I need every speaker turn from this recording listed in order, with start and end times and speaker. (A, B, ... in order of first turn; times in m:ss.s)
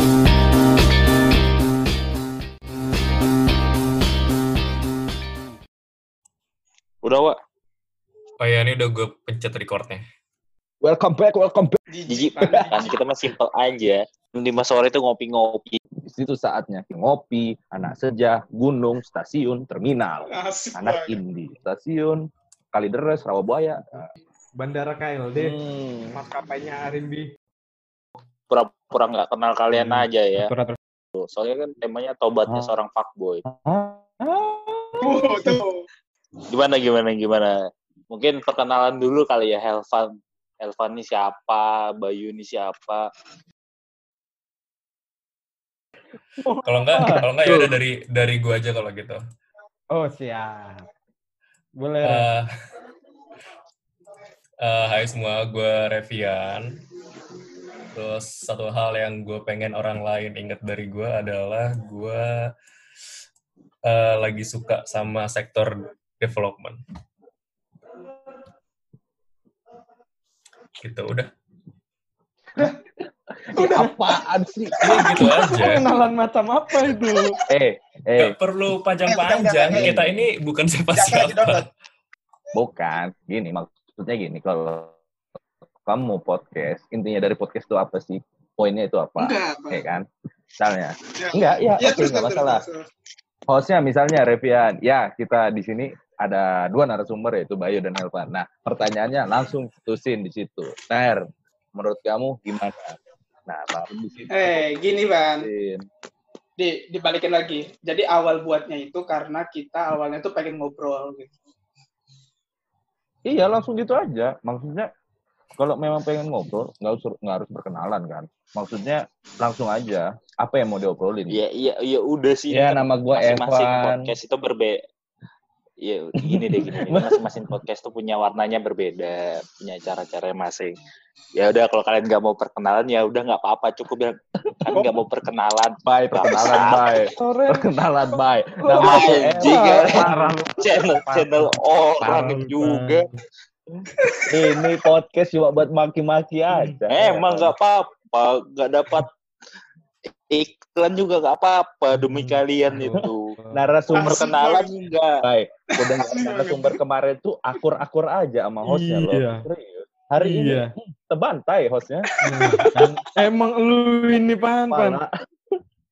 0:07.0-0:07.4 A
0:08.4-0:10.0 B
0:10.8-0:11.8 C
0:11.9-0:13.0 D
0:12.1-0:15.8 A
0:12.4-0:12.7 C
0:16.0-0:24.1 C
0:20.3-0:21.2 D
0:24.6-0:25.6 E
0:25.4-0:26.2 C
0:26.1-0:27.3 E
0:28.5-0:30.5 A
0:29.7-0:30.8 E
0:31.1-0:33.4 A
0:33.5-0:34.1 E
0:34.2-0:35.5 C
0:35.0-0:35.8 D
0:36.5-0:37.5 A
0:38.1-0:43.1 A
0:46.4-0:47.2 E
0:46.6-0:49.2 B
0:47.4-0:47.7 C
0:49.9-0:50.8 E
0:51.8-0:52.3 E
0:52.0-0:52.5 B
0:54.6-0:56.8 B
0:57.9-1:02.4 B
1:03.8-1:06.8 B
1:10.8-1:11.3 B
1:13.5-1:15.3 C
1:14.8-1:15.8 B
1:15.4-1:17.4 E
1:17.5-1:18.3 C
1:18.2-1:21.7 B
1:19.2-1:19.7 D
1:19.6-1:20.2 C
1:21.0-1:21.6 D
1:22.5-1:24.9 C
1:25.8-1:30.0 C
1:29.2-1:29.8 D
1:30.6-1:32.6 C
1:31.2-1:32.8 D
1:33.5-1:44.6 C
1:44.3-1:45.5 D
1:45.4-1:45.8 C
1:46.6-1:51.3 D
1:53.2-1:54.9 C
1:55.6-2:01.4 C
2:01.3-2:04.8 A
2:02.5-2:04.1 C
2:05.8-2:10.8 A
2:06.2-2:07.6 C
2:11.4-2:16.8 A
2:14.5-2:14.8 C
2:15.8-2:20.4 C
2:17.2-2:17.7 E
2:18.6-2:23.1 E
2:18.7-2:23.1 A
2:24.3-2:27.5 C
2:26.5-2:26.8 E
2:26.9-2:29.1 A
2:30.3-2:33.4 A
2:31.9-2:33.6 E
2:33.5-2:34.3 C
2:33.9-2:34.8 D
2:34.1-2:35.2 A
2:35.2-2:42.1 C
2:35.7-2:36.8 D
2:38.6-2:39.5 E
2:40.2-2:40.7 E
2:42.2-2:45.0 E
2:42.4-2:42.7 D
2:44.7-2:45.1 C